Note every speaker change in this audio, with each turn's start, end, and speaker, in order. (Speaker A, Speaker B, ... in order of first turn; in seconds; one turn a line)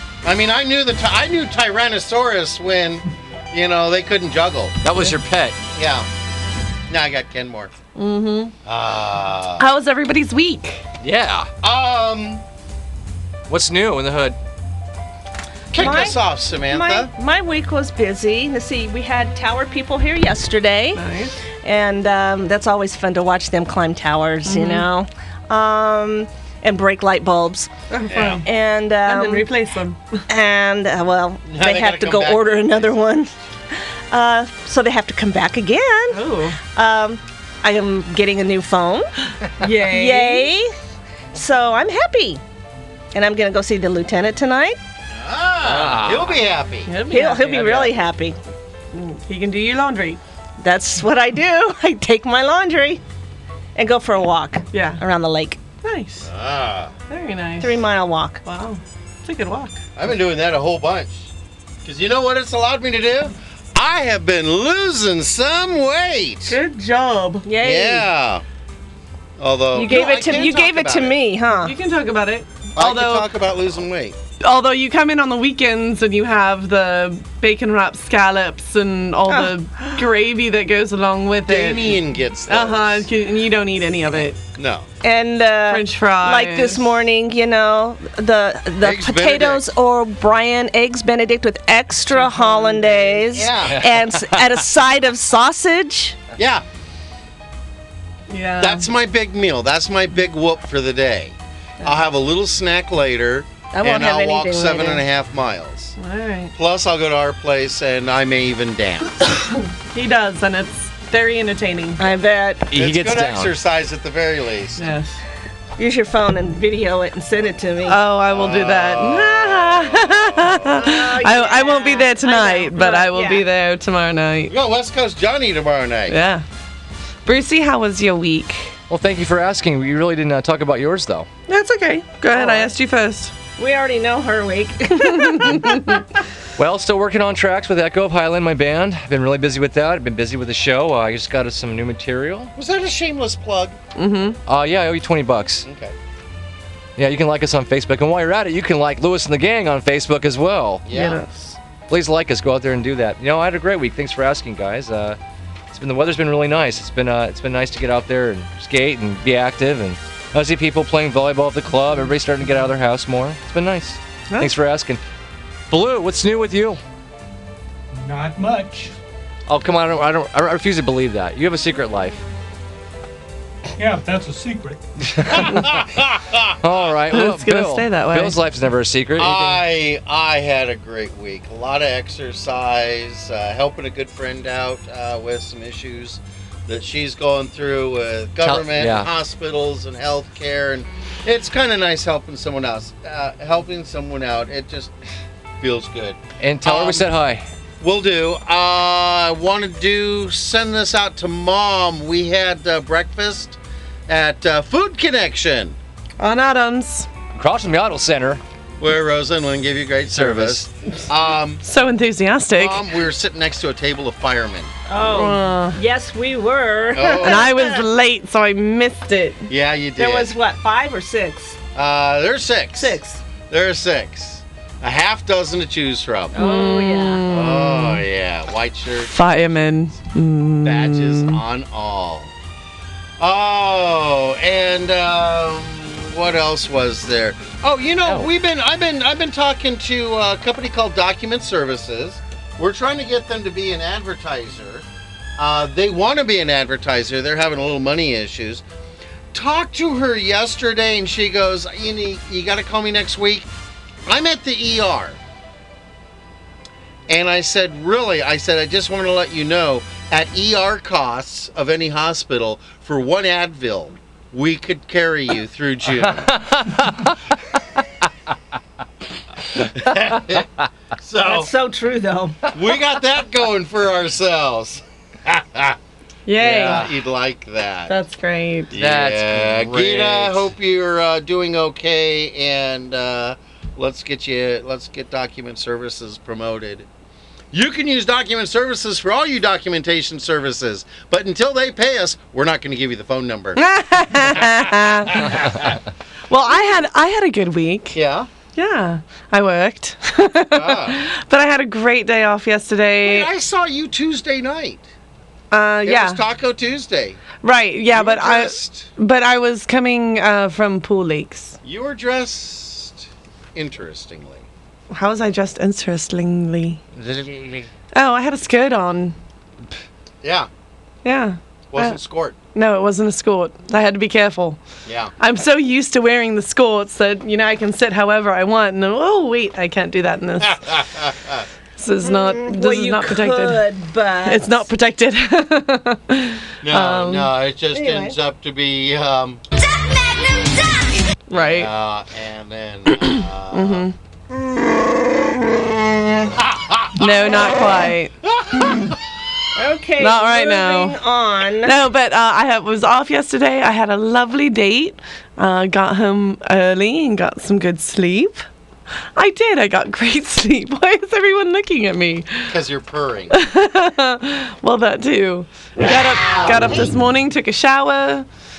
Speaker A: 0.2-4.8
Speaker B: 4.8-5.6
Speaker A: 5.8-6.1
Speaker A: 6.9-7.7
Speaker C: 8.0-8.5
Speaker A: 8.6-9.7
Speaker C: 9.6-10.8
Speaker B: 11.0-11.5
Speaker A: 11.6-12.4
Speaker B: 13.5-14.4
Speaker A: 15.7-17.1
Speaker D: 15.7-21.0
Speaker C: 20.9-21.4
Speaker D: 21.6-27.7
Speaker C: 24.4-24.9
Speaker C: 27.9-28.4
Speaker A: 28.1-28.4
Speaker D: 28.4-29.5
Speaker C: 29.0-30.2
Speaker D: 30.3-40.7
Speaker A: 31.4-33.0
Speaker C: 36.1-36.6
Speaker C: 39.6-40.5
Speaker D: 41.3-42.4
Speaker D: 43.1-44.8
Speaker A: 45.1-46.9
Speaker B: 45.6-46.4
Speaker C: 46.9-47.6
Speaker D: 47.1-48.4
Speaker B: 47.4-47.9
Speaker C: 48.9-50.2
Speaker D: 50.6-53.0
Speaker D: 53.8-55.6
Speaker C: 54.7-55.0
Speaker C: 55.8-56.3
Speaker A: 56.2-56.9
Speaker C: 57.1-57.7
Speaker D: 57.6-58.4
Speaker C: 58.4-59.8
Speaker A: 60.0-61.3
Speaker A: 61.8-66.6
Speaker D: 66.5-68.1
Speaker A: 67.6-68.4
Speaker A: 69.4-71.2
Speaker D: 69.7-71.7
Speaker C: 71.6-73.3
Speaker A: 72.8-74.2
Speaker C: 74.4-84.4
Speaker D: 79.3-80.0
Speaker A: 81.5-83.1
Speaker A: 84.5-84.9
Speaker D: 85.0-96.2
Speaker C: 85.7-86.9
Speaker A: 88.8-89.6
Speaker C: 92.1-93.2
Speaker A: 93.3-93.8
Speaker B: 93.6-94.6
Speaker A: 96.4-96.6
Speaker C: 98.3-98.9
Speaker A: 98.6-106.0
Speaker D: 103.7-105.0
Speaker C: 106.0-106.5
Speaker A: 106.5-109.3
Speaker C: 109.9-112.0
Speaker D: 112.0-112.7
Speaker B: 112.7-113.5
Speaker A: 112.7-114.9
Speaker C: 114.8-115.2
Speaker D: 115.8-118.0
Speaker C: 117.8-124.5
Speaker A: 118.3-120.8
Speaker D: 120.7-123.5
Speaker A: 124.5-126.2
Speaker C: 126.1-126.4
Speaker C: 127.2-128.7
Speaker B: 128.9-131.3
Speaker C: 131.5-133.3
Speaker D: 132.3-132.7
Speaker D: 133.6-136.0
Speaker C: 135.0-136.0
Speaker B: 136.6-142.5
Speaker A: 142.5-143.8
Speaker C: 143.9-144.4
Speaker B: 144.5-145.7
Speaker A: 145.6-145.9
Speaker B: 147.0-150.8
Speaker A: 150.8-151.2
Speaker C: 150.9-151.6
Speaker B: 151.9-155.2
Speaker B: 155.7-165.0
Speaker B: 165.7-166.8
Speaker E: 167.9-168.9
Speaker B: 169.5-172.2
Speaker E: 173.8-174.8
Speaker B: 175.1-175.7
Speaker A: 175.3-176.6
Speaker B: 176.6-179.6
Speaker C: 177.1-178.3
Speaker A: 179.2-194.9
Speaker B: 188.4-189.1
Speaker A: 195.6-197.1
Speaker B: 196.4-197.4
Speaker A: 197.8-205.8
Speaker C: 206.2-207.1
Speaker B: 207.3-208.4
Speaker A: 208.8-211.6
Speaker B: 210.1-210.7
Speaker C: 211.6-212.8
Speaker A: 212.5-214.7
Speaker D: 214.9-217.9
Speaker C: 215.1-215.8
Speaker A: 216.9-217.5
Speaker C: 217.2-219.5
Speaker A: 219.5-220.3
Speaker D: 220.0-221.6
Speaker A: 221.7-226.4
Speaker D: 222.8-223.2
Speaker D: 226.3-227.3
Speaker C: 226.3-228.0
Speaker A: 227.3-229.2
Speaker C: 229.1-231.4
Speaker A: 230.6-232.3
Speaker A: 233.2-244.8
Speaker A: 245.4-248.6
Speaker A: 249.3-253.5
Speaker A: 254.1-255.2
Speaker A: 257.1-266.3
Speaker B: 266.2-267.2
Speaker A: 269.6-271.5
Speaker D: 271.2-272.5
Speaker A: 272.5-275.8
Speaker C: 276.2-276.8
Speaker A: 276.4-278.0
Speaker C: 277.9-278.7
Speaker A: 278.7-286.9
Speaker B: 278.7-280.5
Speaker A: 287.5-293.6
Speaker C: 293.6-295.4
Speaker A: 294.3-295.8
Speaker C: 296.3-298.0
Speaker A: 297.9-298.3
Speaker C: 298.5-303.3
Speaker A: 300.5-301.0
Speaker A: 303.0-304.8
Speaker C: 305.5-306.2
Speaker A: 305.8-307.2
Speaker C: 307.4-311.6
Speaker A: 307.9-308.9
Speaker A: 311.6-314.5
Speaker C: 314.9-316.8
Speaker B: 316.9-317.7
Speaker C: 317.9-319.1
Speaker A: 320.2-320.5
Speaker C: 321.0-322.0
Speaker A: 321.7-322.4
Speaker C: 322.5-324.6
Speaker A: 324.9-325.1
Speaker C: 325.2-330.6
Speaker A: 330.4-331.5
Speaker C: 331.8-333.6
Speaker D: 332.0-334.6
Speaker C: 334.2-337.3
Speaker A: 336.6-339.4
Speaker D: 337.7-338.1
Speaker C: 341.3-341.7
Speaker A: 341.3-343.9
Speaker C: 343.0-343.9
Speaker A: 346.3-347.5
Speaker C: 346.9-348.8
Speaker A: 348.2-349.0
Speaker D: 349.5-351.8
Speaker C: 350.0-351.0
Speaker C: 351.6-358.4
Speaker C: 359.1-362.5
Speaker A: 362.5-363.4
Speaker C: 363.3-368.2
Speaker A: 366.2-366.9